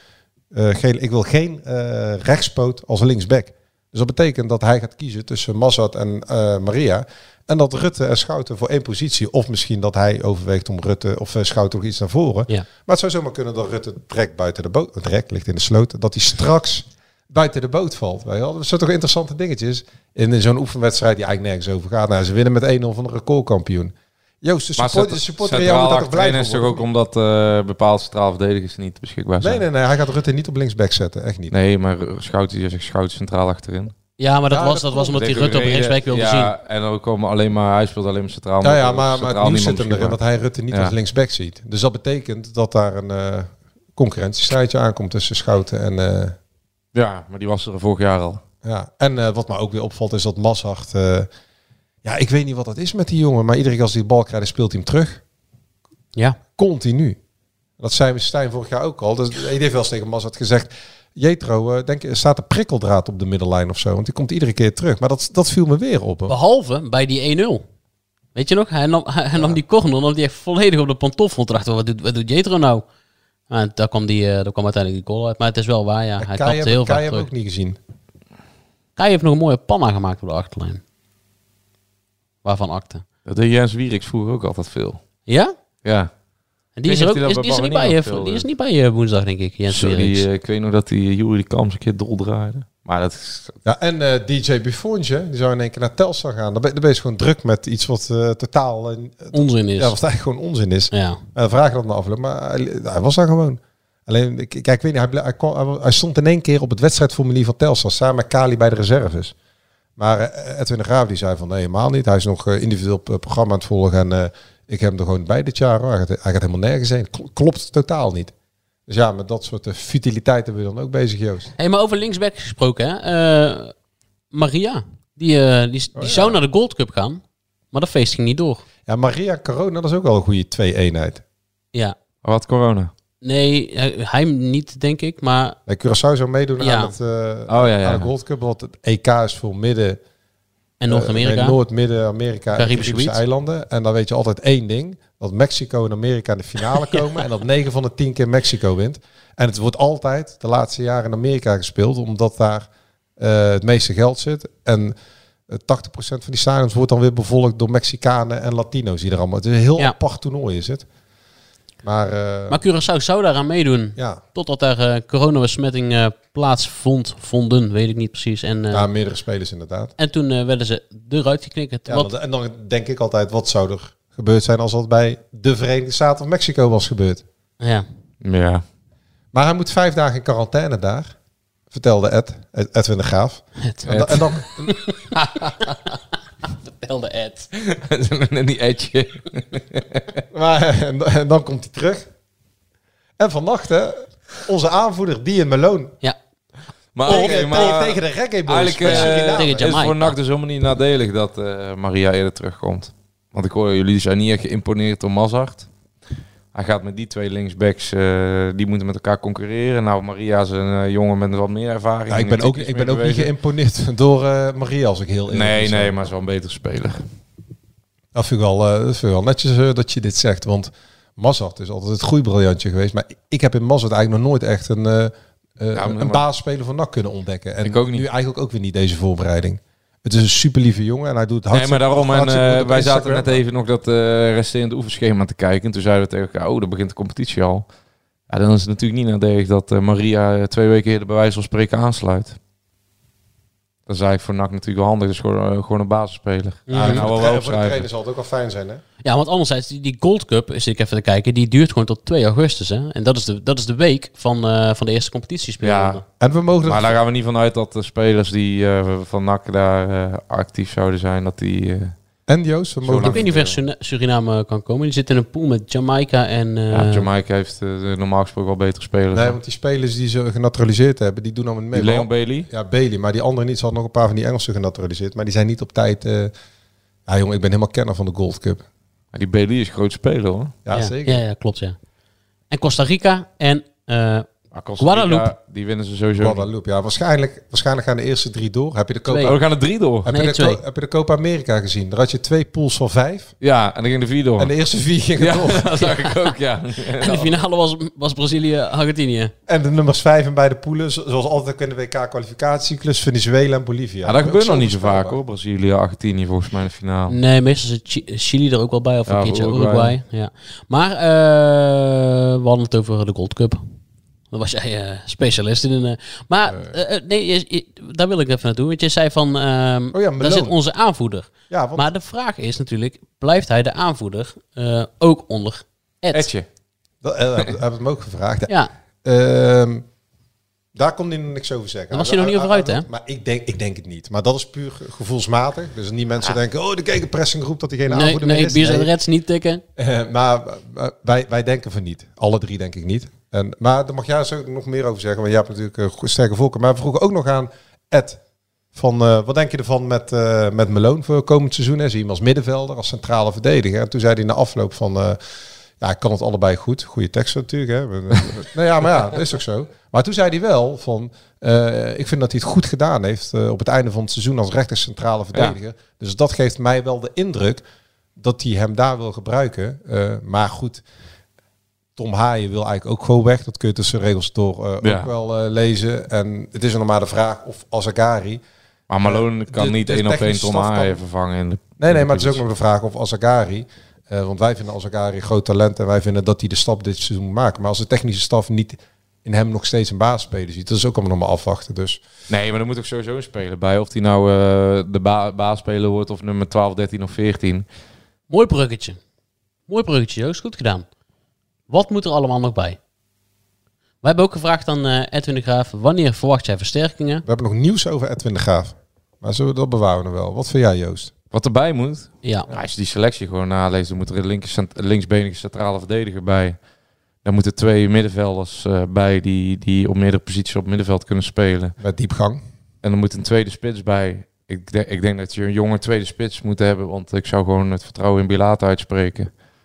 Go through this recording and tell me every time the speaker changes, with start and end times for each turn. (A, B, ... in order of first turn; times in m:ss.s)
0:00.5-0:26.9 A
0:24.8-0:29.6 B
0:29.4-0:31.6 A
0:31.5-0:33.9 B
0:34.2-0:36.5 C
0:34.5-0:35.4 A
0:35.2-0:40.2 B
0:38.6-0:46.4 A
0:46.9-0:48.4 B
0:48.6-0:51.3 A
0:52.0-0:55.2 A
0:56.6-0:57.2 A
0:57.8-1:06.4 A
1:06.3-1:07.6 C
1:08.4-1:12.8 C
1:13.5-1:17.3 C
1:16.2-1:17.8 A
1:19.0-1:20.8 C
1:22.4-1:23.0 C
1:23.3-1:25.0 B
1:25.3-1:25.5 C
1:25.8-1:26.1 B
1:26.8-1:30.2 C
1:26.8-1:28.5 B
1:29.7-1:33.6 B
1:33.6-1:49.3 A
1:39.3-1:40.0 C
1:40.9-1:41.2 C
1:50.0-1:58.3 A
1:58.9-2:01.5 A
2:01.6-2:03.7 C
2:04.3-2:08.6 C
2:06.0-2:06.4 A
2:08.9-2:11.2 A
2:12.2-2:12.9 B
2:13.2-2:15.6 C
2:15.7-2:20.0 A
2:16.6-2:16.9 C
2:17.5-2:18.1 B
2:20.8-2:21.6 C
2:20.9-2:35.0 A
2:22.6-2:23.2 C
2:35.5-2:40.9 A
2:41.8-2:42.6 A
2:42.5-2:48.9 C
2:44.0-2:44.2 A
2:48.7-2:49.9 A
2:50.0-2:52.1 C
2:51.9-2:57.2 A
2:57.6-2:57.9 C
2:58.2-2:58.6 B
2:59.3-3:01.1 A
3:01.7-3:04.8 A
3:03.6-3:04.1 C
3:03.9-3:04.2 B
3:04.7-3:06.0 C
3:06.6-3:07.5 C
3:07.6-3:10.1 B
3:10.3-3:12.1 A
3:13.2-3:16.0 A
3:17.0-3:25.7 B
3:17.1-3:17.7 C
3:17.1-3:19.7 A
3:18.8-3:20.2 C
3:26.5-3:33.3 B
3:32.1-3:35.9 A
3:35.3-3:37.0 B
3:38.1-3:53.4 A
3:45.7-3:46.2 B
3:47.6-3:48.0 B
3:51.5-3:57.7 B
3:58.3-4:02.4 B
4:03.9-4:07.8 B
4:06.7-4:07.0 C
4:06.7-4:08.8 A
4:09.0-4:16.0 C
4:15.6-4:16.0 B
4:16.2-4:17.0 A
4:16.6-4:22.0 B
4:22.3-4:23.2 A
4:22.8-4:23.6 B
4:23.1-4:27.1 C
4:26.7-4:29.4 B
4:29.1-4:36.3 A
4:31.7-4:32.5 B
4:37.1-4:38.6 A
4:39.1-4:40.5 B
4:40.6-4:41.2 A
4:40.7-4:41.8 C
4:42.5-4:44.3 C
4:44.5-4:46.5 B
4:44.8-4:45.3 C
4:46.2-4:49.4 A
4:49.1-4:49.4 C
4:49.2-4:50.1 B
4:50.0-4:53.3 A
4:50.1-4:50.6 C
4:53.4-4:54.5 B
4:54.4-4:55.9 A
4:55.2-4:57.4 B
4:57.0-4:59.3 C
4:59.5-5:05.2 A
5:04.0-5:07.2 B
5:07.1-5:13.6 C
5:09.1-5:10.0 B
5:14.3-5:26.3 C
5:19.9-5:20.6 A
5:21.5-5:21.9 A
5:26.1-5:26.5 B
5:27.0-5:28.5 A
5:29.0-5:29.8 A
5:30.8-5:38.9 A
5:31.9-5:32.9 C
5:37.9-5:39.6 C
5:39.8-5:48.2 A
5:48.7-5:55.2 A
5:55.8-6:07.6 A
6:08.2-6:10.8 A
6:12.0-6:18.4 A
6:14.8-6:15.1 B
6:18.9-6:22.4 B
6:19.0-6:21.0 A
6:21.8-6:32.0 A
6:32.3-6:37.7 B
6:38.3-6:39.0 C
6:39.7-6:40.9 C
6:41.7-6:42.8 C
6:44.0-6:47.2 C
6:47.3-6:51.1 A
6:51.3-6:56.6 B
6:57.2-7:01.8 B
7:01.8-7:02.4 A
7:02.8-7:09.3 B